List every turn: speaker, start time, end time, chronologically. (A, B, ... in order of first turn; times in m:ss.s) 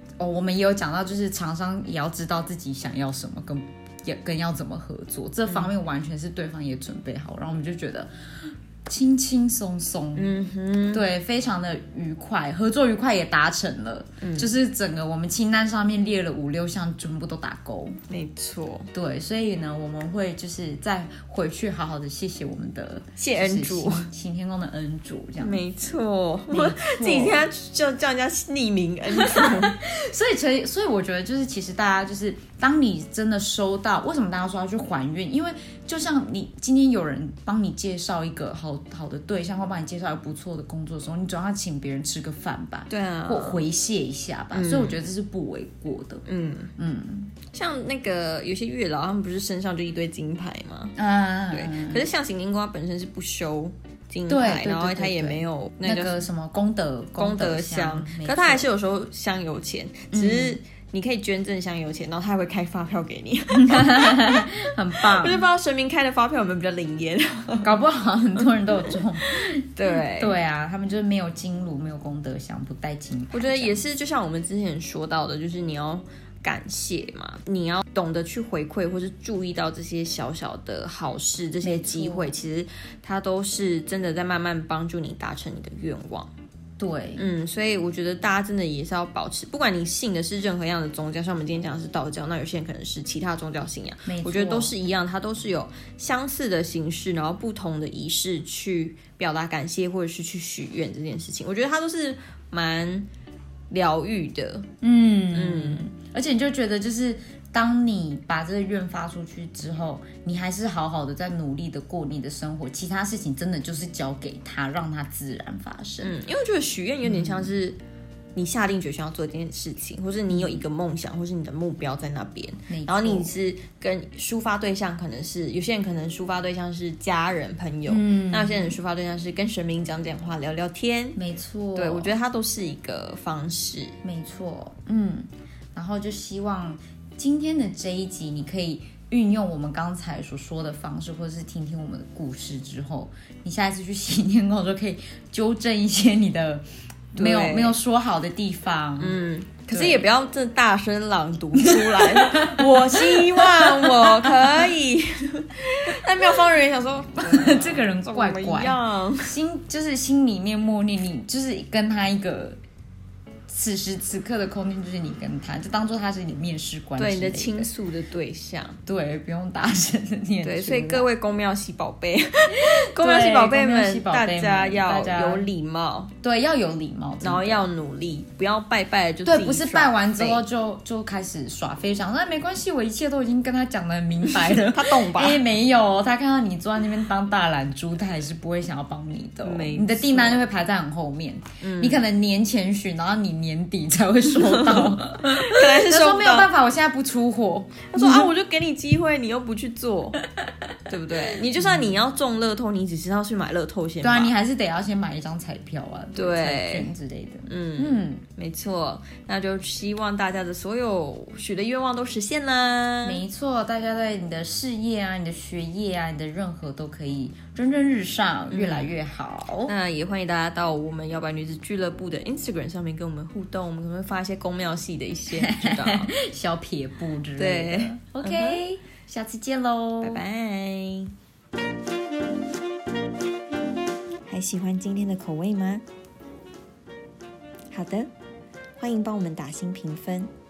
0:00.2-0:10.3 A
0:10.1-0:11.0 B
0:10.9-0:18.0 A
0:14.2-0:14.5 B
0:18.1-0:18.9 B
0:18.9-0:25.6 A
0:23.2-0:24.1 B
0:25.4-0:29.8 B
0:26.5-0:27.5 A
0:29.1-0:46.2 A
0:42.9-0:43.6 B
0:44.5-0:45.0 B
0:46.3-0:46.7 B
0:46.8-0:47.4 A
0:47.5-0:51.0 B
0:51.0-0:52.0 A
0:51.5-0:56.2 B
0:54.3-0:58.7 A
0:57.2-1:07.8 B
1:00.1-1:00.6 A
1:03.6-1:05.5 A
1:07.6-1:13.8 A
1:08.4-1:09.0 B
1:09.8-1:10.4 B
1:13.3-1:26.3 B
1:21.6-1:22.4 A
1:26.8-1:27.3 A
1:27.2-1:43.1 B
1:34.1-1:34.7 A
1:43.7-1:44.7 B
1:44.8-1:56.1 A
1:45.3-1:45.8 B
1:56.0-1:57.8 B
1:57.0-1:57.5 A
1:58.4-2:11.2 B
2:00.3-2:00.6 A
2:02.7-2:03.3 A
2:07.9-2:08.8 A
2:11.2-2:12.1 A
2:11.8-2:14.0 B
2:14.0-2:29.2 A
2:27.2-2:27.8 B
2:29.0-2:39.4 B
2:29.7-2:30.1 A
2:31.6-2:34.7 A
2:37.2-2:42.6 A
2:43.5-2:47.7 A
2:47.0-2:48.8 B
2:48.9-2:51.1 A
2:50.4-2:56.1 B
2:52.6-2:55.5 A
2:56.2-2:57.7 A
2:57.2-3:00.4 B
2:59.2-3:18.3 A
3:04.4-3:05.4 B
3:09.4-3:10.4 B
3:11.6-3:12.0 B
3:14.4-3:16.5 B
3:17.9-3:20.2 B
3:20.9-3:24.3 B
3:21.3-3:21.9 A
3:24.0-3:28.2 A
3:26.2-3:26.9 B
3:27.5-3:33.2 B
3:33.0-3:39.7 A
3:38.5-3:38.9 B
3:39.6-3:46.1 B
3:45.3-3:50.2 A
3:47.4-3:48.6 B
3:50.0-3:51.1 B
3:54.3-3:55.8 B
3:57.7-3:58.1 B
3:58.8-4:00.3 B